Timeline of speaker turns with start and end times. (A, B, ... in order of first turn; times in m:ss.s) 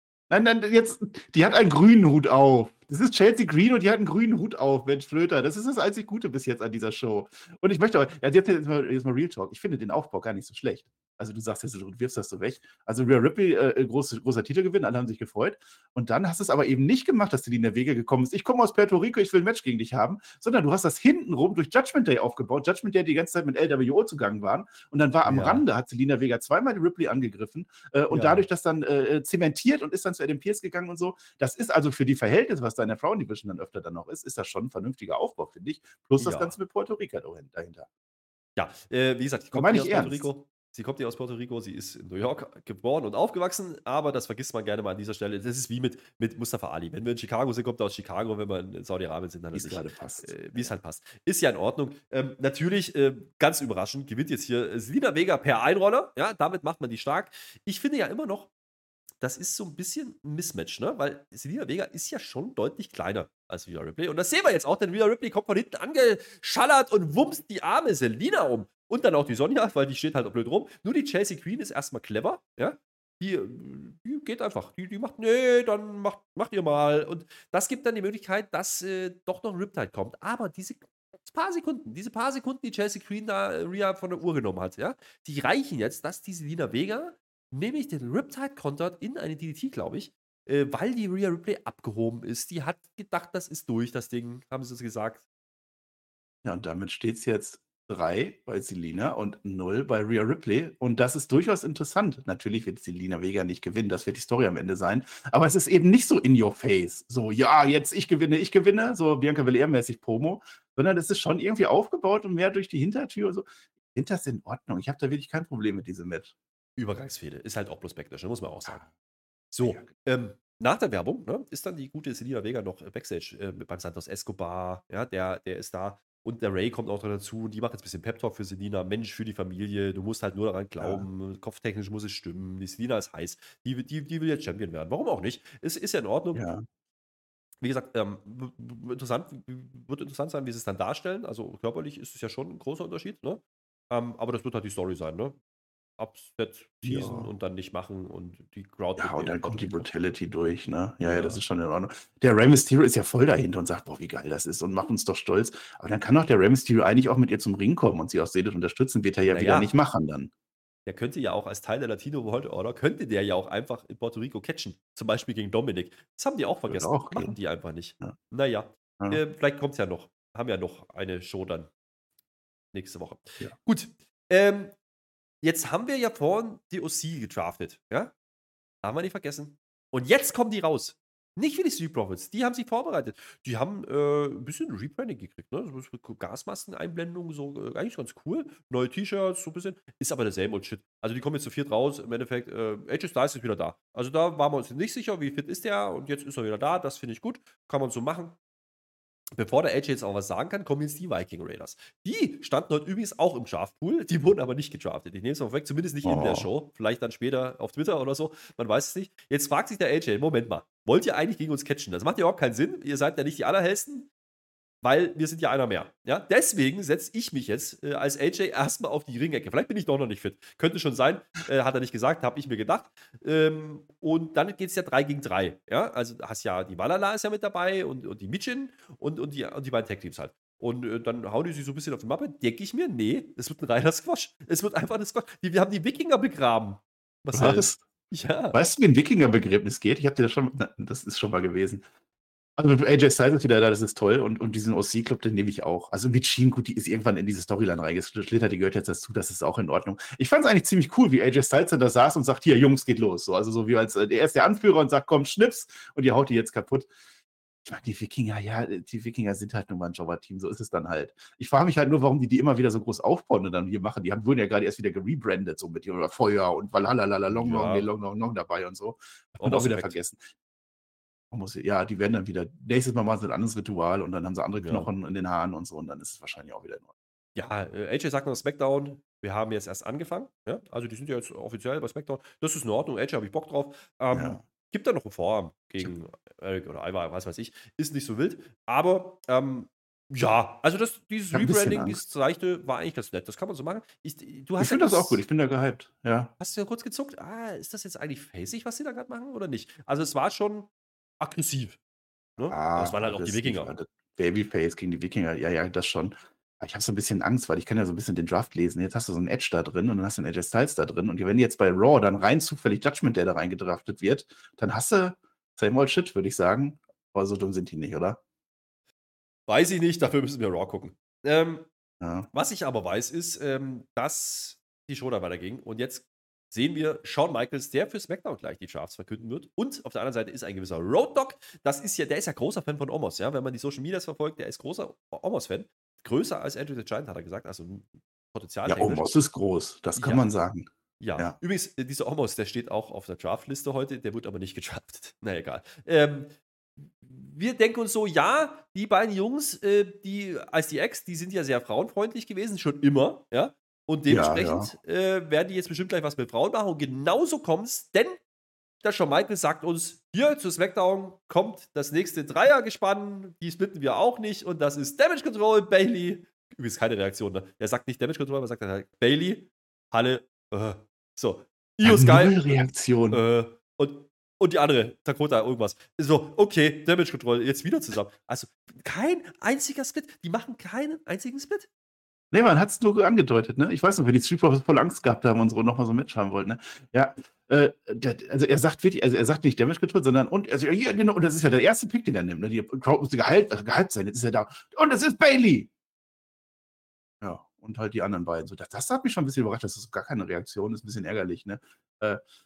0:00.3-0:37.9 A
0:25.2-0:25.6 B
0:28.1-0:28.5 B
0:36.2-0:36.6 B
0:38.6-0:58.5 B
0:39.5-0:40.3 A
0:49.5-0:50.8 A
0:59.2-1:35.2 B
1:36.4-1:56.3 A
1:56.8-1:58.9 B
1:59.5-2:16.5 B
2:10.8-2:11.1 A
2:16.3-2:16.6 A
2:17.6-2:25.4 B
2:26.0-2:29.9 B
2:26.8-2:27.3 A
2:29.0-2:40.3 A
2:31.0-2:31.4 B
2:39.3-2:39.7 B
2:40.9-2:51.7 B
2:46.7-2:47.4 A
2:52.7-2:54.8 B
2:55.4-2:58.1 B
2:58.8-3:18.4 B
3:19.4-3:34.1 B
3:26.0-3:26.5 A
3:34.8-3:58.6 B
3:57.3-3:57.8 A
3:58.5-4:01.8 A
4:02.6-4:16.9 A
4:17.6-4:30.2 A
4:27.3-4:27.9 B
4:29.4-4:30.0 B
4:31.3-4:36.9 A
4:34.6-4:34.9 B
4:37.4-4:55.2 B
4:44.1-4:44.4 A
4:51.3-4:52.0 A
4:54.6-4:56.3 A
4:56.4-5:00.7 B
5:01.2-5:01.8 B
5:02.4-5:03.7 B
5:02.5-5:18.2 A
5:19.5-5:21.7 B
5:22.0-5:22.3 A
5:22.3-5:39.2 B
5:38.7-5:41.4 A
5:40.0-5:40.3 B
5:41.0-5:58.2 B
5:54.1-5:54.7 A
5:58.8-6:21.7 B
6:11.8-6:13.2 A
6:22.3-6:35.7 A
6:37.2-6:42.2 A